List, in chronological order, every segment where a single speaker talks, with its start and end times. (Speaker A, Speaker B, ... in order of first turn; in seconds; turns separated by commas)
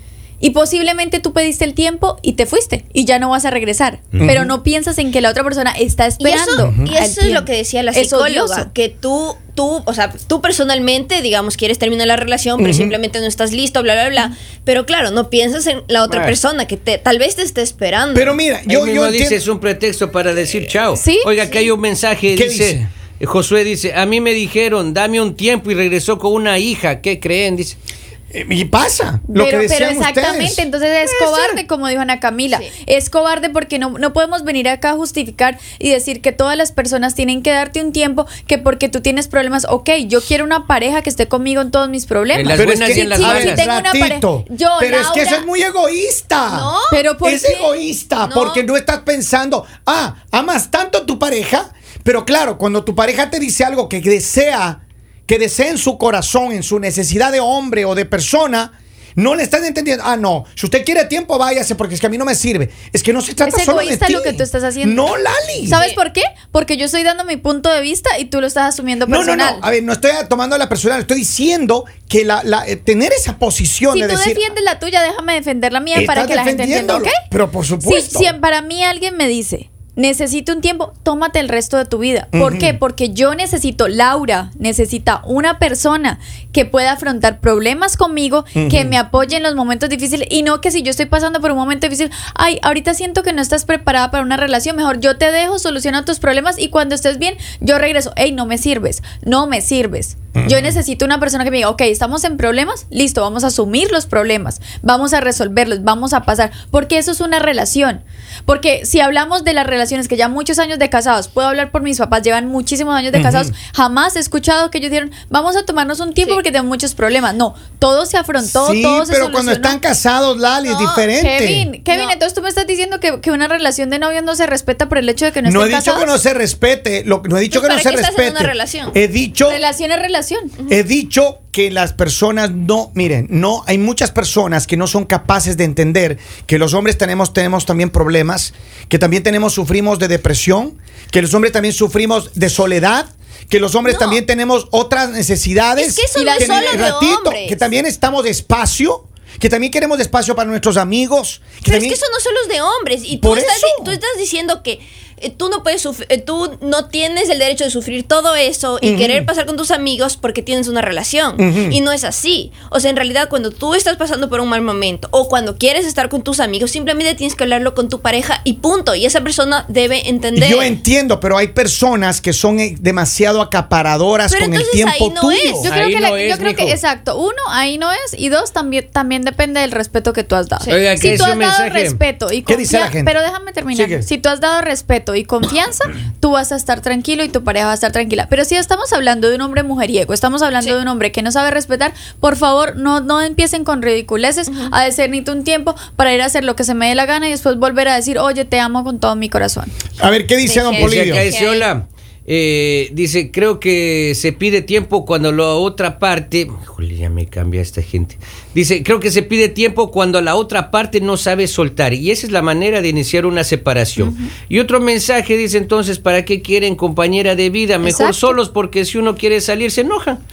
Speaker A: 0.4-8.7, Speaker B: 4.2-4.5, Speaker C: 6.2-18.4, Speaker B: 6.6-6.9, Speaker B: 12.6-12.9, Speaker D: 16.1-16.4, Speaker B: 18.1-19.4, Speaker D: 18.6-27.8, Speaker A: 20.9-21.3, Speaker C: 21.4-21.7, Speaker B: 22.3-22.9, Speaker B: 28.3-30.6, Speaker A: 29.3-45.5, Speaker D: 42.3-43.7, Speaker B: 42.5-46.7, Speaker C: 46.5-47.0, Speaker A: 46.9-47.7, Speaker B: 47.2-65.8, Speaker C: 48.2-48.6, Speaker A: 63.5-65.1, Speaker A: 65.6-69.6, Speaker C: 65.7-66.0, Speaker B: 69.1-74.4, Speaker A: 73.9-77.2, Speaker B: 75.9-78.3, Speaker A: 77.8-119.8, Speaker B: 82.3-82.8, Speaker B: 88.5-89.0, Speaker B: 100.3-100.8, Speaker B: 113.1-113.5, Speaker B: 118.4-121.7, Speaker C: 120.7-121.0, Speaker A: 121.2-126.1, Speaker C: 121.9-122.1, Speaker B: 125.4-129.6, Speaker C: 127.5-128.9, Speaker A: 129.4-130.5, Speaker B: 130.7-152.0, Speaker C: 143.9-144.2, Speaker C: 145.8-147.7, Speaker A: 146.1-146.9, Speaker C: 151.6-170.7, Speaker B: 153.2-154.0, Speaker B: 158.8-159.3, Speaker B: 161.4-161.8, Speaker B: 170.3-175.7, Speaker C: 174.3-175.7, Speaker D: 175.6-176.8, Speaker A: 175.6-199.7, Speaker D: 180.7-182.0, Speaker B: 182.4-183.1, Speaker B: 183.7-184.0, Speaker B: 200.0-201.3, Speaker C: 200.4-201.7, Speaker D: 200.7-220.2, Speaker A: 214.0-214.3, Speaker A: 217.8-218.3